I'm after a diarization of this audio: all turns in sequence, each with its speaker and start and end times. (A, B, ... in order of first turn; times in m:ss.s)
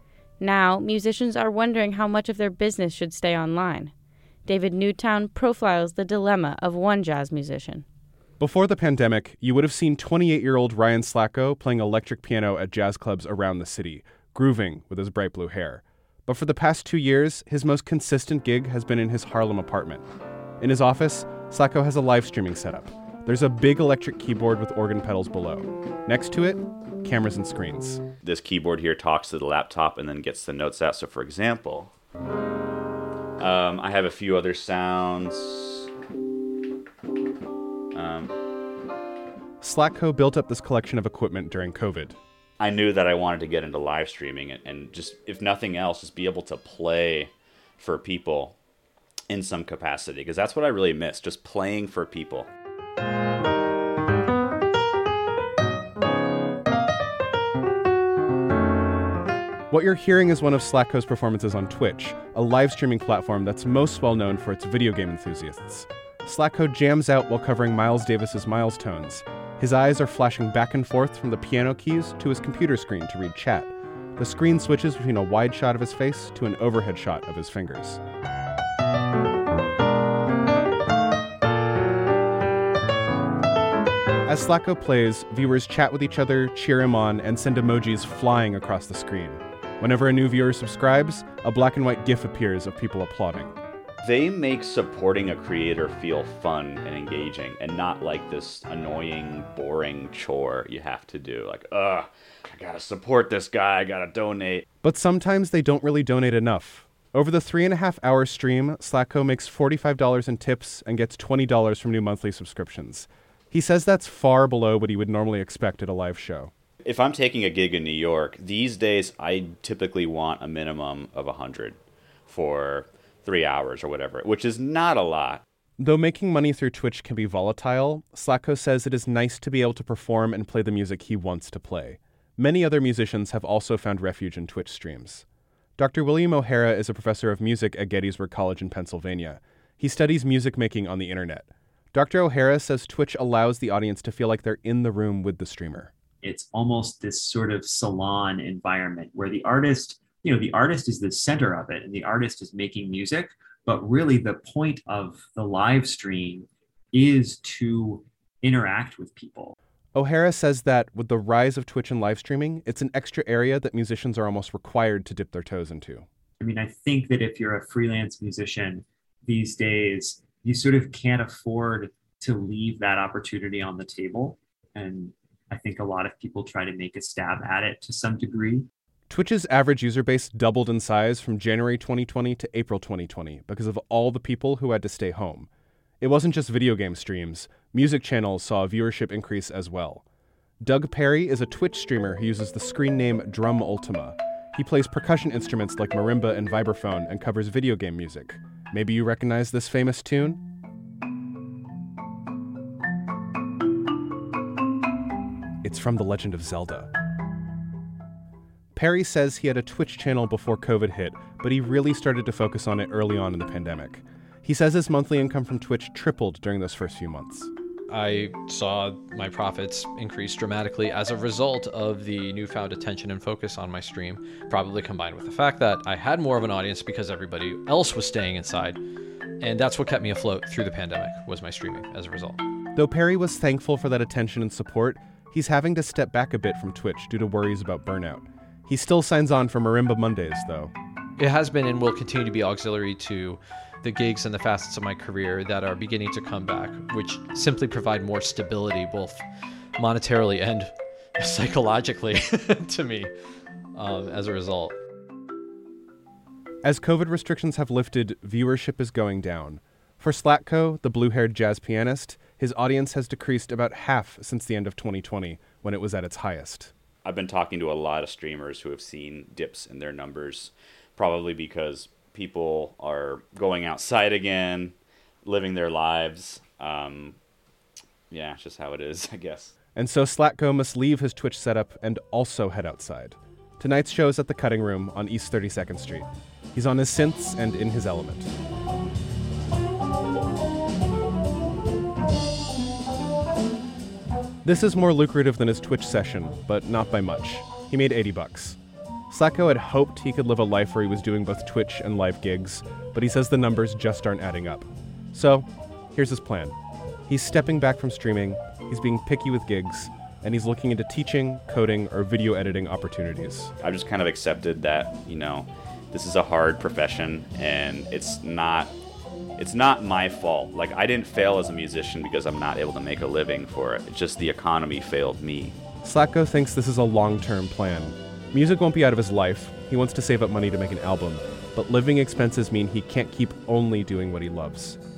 0:00.4-0:03.9 A
0:04.4-0:07.8 A
0:08.4-0:20.0 B
0:20.6-0:28.0 B
0:28.2-0:31.9 C
0:33.4-0:35.9 C
0:37.9-0:38.4 C
0:39.6-0:42.2 B
0:42.6-0:48.6 C
0:49.3-0:52.5 C
0:59.7-1:18.0 B
1:24.2-1:33.6 B
1:34.0-1:44.6 C
1:44.8-1:56.5 B
1:56.8-2:05.4 C
2:05.8-2:15.2 B
2:15.8-2:25.9 B
2:26.2-2:39.5 D
2:39.9-2:46.0 B
2:46.4-2:58.7 D
2:59.1-3:05.5 B
3:06.0-3:10.0 B
3:10.6-3:20.4 B
3:25.6-3:26.9 B
3:28.7-3:37.5 B
3:37.9-3:48.8 E
3:49.4-3:52.4 E
3:52.7-4:00.7 B
4:01.2-4:09.2 E
4:09.8-4:13.1 E
4:13.7-4:14.7 E
4:16.6-4:26.7 B
4:27.0-4:37.2 C
4:38.1-4:39.5 C
4:39.7-4:48.3 B
4:54.4-4:58.6 B
4:59.1-5:06.6 B
5:07.1-5:13.5 B
5:13.6-5:18.7 C
5:19.4-5:25.6 C
5:25.8-5:34.8 B